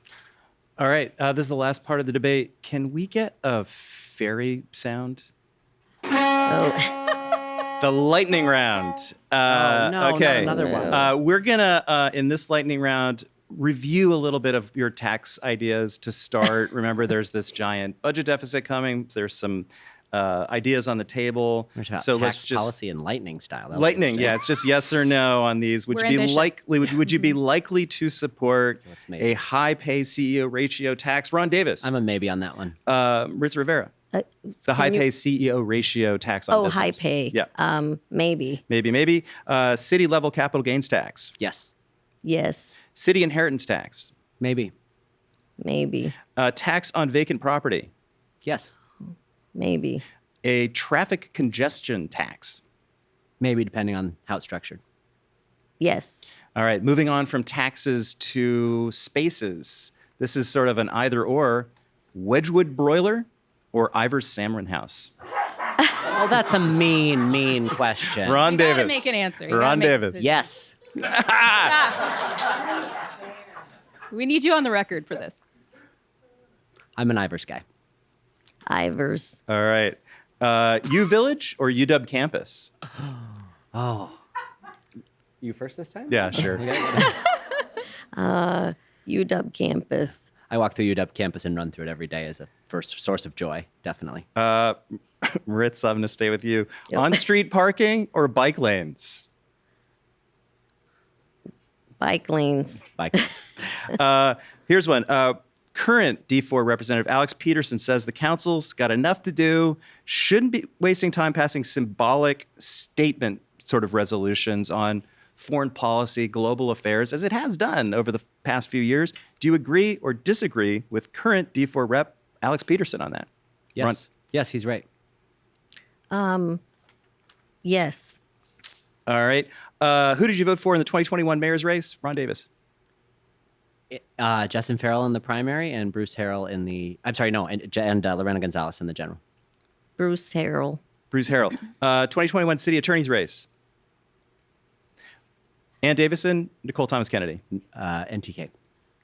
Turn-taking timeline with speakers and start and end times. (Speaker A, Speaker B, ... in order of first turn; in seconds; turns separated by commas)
Speaker A: 0.8-5.2, Speaker B: 6.5-6.9, Speaker A: 7.8-22.7, Speaker C: 9.5-11.1, Speaker B: 10.4-11.0, Speaker C: 21.8-24.4, Speaker A: 23.7-31.9, Speaker D: 25.9-26.6, Speaker C: 28.9-29.3, Speaker C: 31.8-32.7, Speaker A: 32.9-33.9, Speaker B: 34.1-35.0, Speaker A: 34.7-37.5, Speaker B: 36.5-38.6, Speaker A: 38.7-41.3, Speaker C: 41.4-41.7, Speaker B: 42.2-42.8, Speaker A: 42.9-44.1, Speaker C: 44.4-44.7, Speaker B: 45.6-46.1, Speaker A: 46.4-47.9, Speaker C: 48.4-48.7, Speaker B: 49.5-50.0, Speaker A: 50.4-52.6, Speaker C: 53.4-54.8, Speaker B: 55.8-56.2, Speaker A: 56.5-65.1, Speaker C: 66.0-68.4, Speaker A: 68.2-70.2, Speaker D: 68.4-70.3, Speaker C: 70.2-70.8, Speaker A: 71.0-71.7, Speaker D: 71.5-72.1, Speaker D: 74.1-75.4, Speaker C: 77.0-77.6, Speaker B: 78.7-79.4, Speaker A: 79.5-82.7, Speaker C: 83.7-84.2, Speaker C: 85.4-87.1, Speaker A: 86.1-86.6, Speaker B: 88.1-90.3, Speaker C: 90.5-94.2, Speaker A: 94.3-99.3, Speaker B: 102.0-102.8, Speaker C: 103.0-103.3, Speaker A: 103.8-123.3, Speaker C: 123.8-124.8, Speaker B: 126.1-126.6, Speaker B: 127.6-128.2, Speaker A: 129.1-132.5, Speaker C: 133.9-139.2, Speaker B: 140.0-140.8, Speaker A: 141.1-143.4, Speaker A: 145.8-147.4, Speaker C: 147.7-148.5